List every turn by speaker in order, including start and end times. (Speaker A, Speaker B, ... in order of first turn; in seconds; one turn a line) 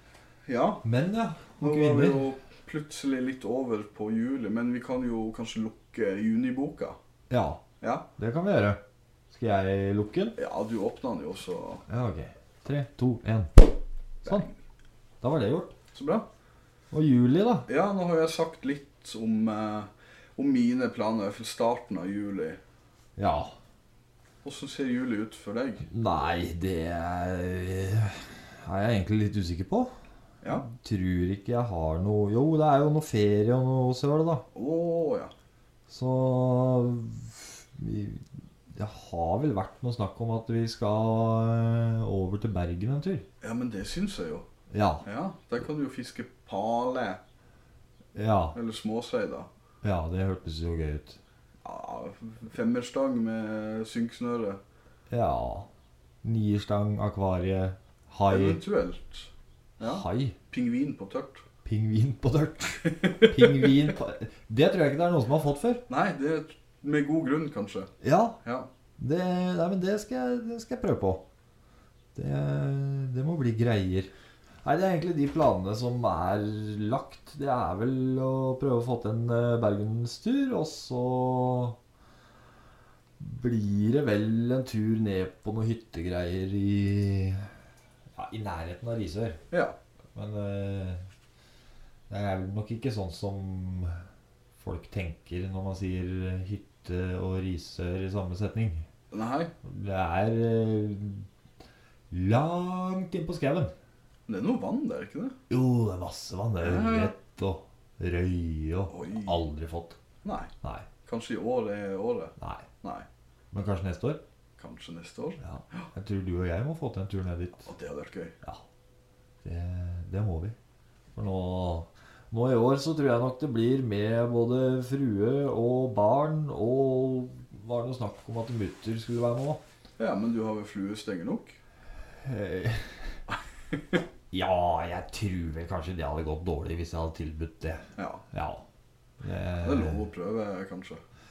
Speaker A: 0.5-0.8
Speaker B: 0.8-2.3
Speaker A: 1.6-7.0
Speaker B: 7.3-7.6
Speaker B: 8.2-8.8
Speaker B: 9.3-10.3
Speaker A: 10.3-11.8
Speaker B: 11.9-14.4
Speaker A: 14.2-14.6
Speaker B: 15.2-15.7
Speaker A: 15.9-16.2
Speaker B: 16.9-17.7
Speaker A: 17.7-22.6
Speaker B: 23.2-23.5
Speaker A: 24.4-25.9
Speaker B: 25.9-29.9
Speaker B: 30.5-34.4
Speaker A: 34.5-35.3
Speaker B: 35.9-43.2
Speaker A: 43.4-44.5
Speaker B: 44.7-45.0
Speaker A: 45.0-47.2
Speaker B: 48.1-48.5
Speaker A: 48.5-49.5
Speaker B: 49.8-51.2
Speaker A: 51.6-54.6
Speaker B: 55.1-55.7
Speaker B: 56.2-58.6
Speaker A: 58.3-61.4
Speaker B: 59.8-60.3
Speaker B: 61.6-65.8
Speaker A: 62.9-63.6
Speaker A: 65.9-68.7
Speaker B: 68.0-68.4
Speaker B: 69.0-71.2
Speaker B: 72.1-74.1
Speaker B: 74.6-81.8
Speaker B: 83.2-87.5
Speaker B: 88.1-89.4
Speaker B: 90.1-91.0
Speaker B: 92.1-94.0
Speaker B: 94.6-98.8
Speaker A: 99.1-99.5
Speaker B: 99.6-101.3
Speaker B: 102.1-103.7
Speaker A: 104.3-105.3
Speaker B: 105.5-110.0
Speaker A: 106.6-107.1
Speaker A: 108.9-109.3
Speaker A: 110.2-110.5
Speaker B: 110.6-110.9
Speaker A: 111.0-113.0
Speaker B: 112.4-112.7
Speaker B: 113.5-114.2
Speaker A: 114.6-115.9
Speaker B: 115.4-117.7
Speaker A: 117.7-118.3
Speaker B: 119.4-120.5
Speaker B: 121.1-129.6
Speaker A: 130.0-131.6
Speaker B: 132.2-133.2
Speaker A: 133.7-134.0
Speaker B: 134.3-138.6
Speaker A: 138.0-138.2
Speaker B: 139.2-140.0
Speaker A: 139.6-141.0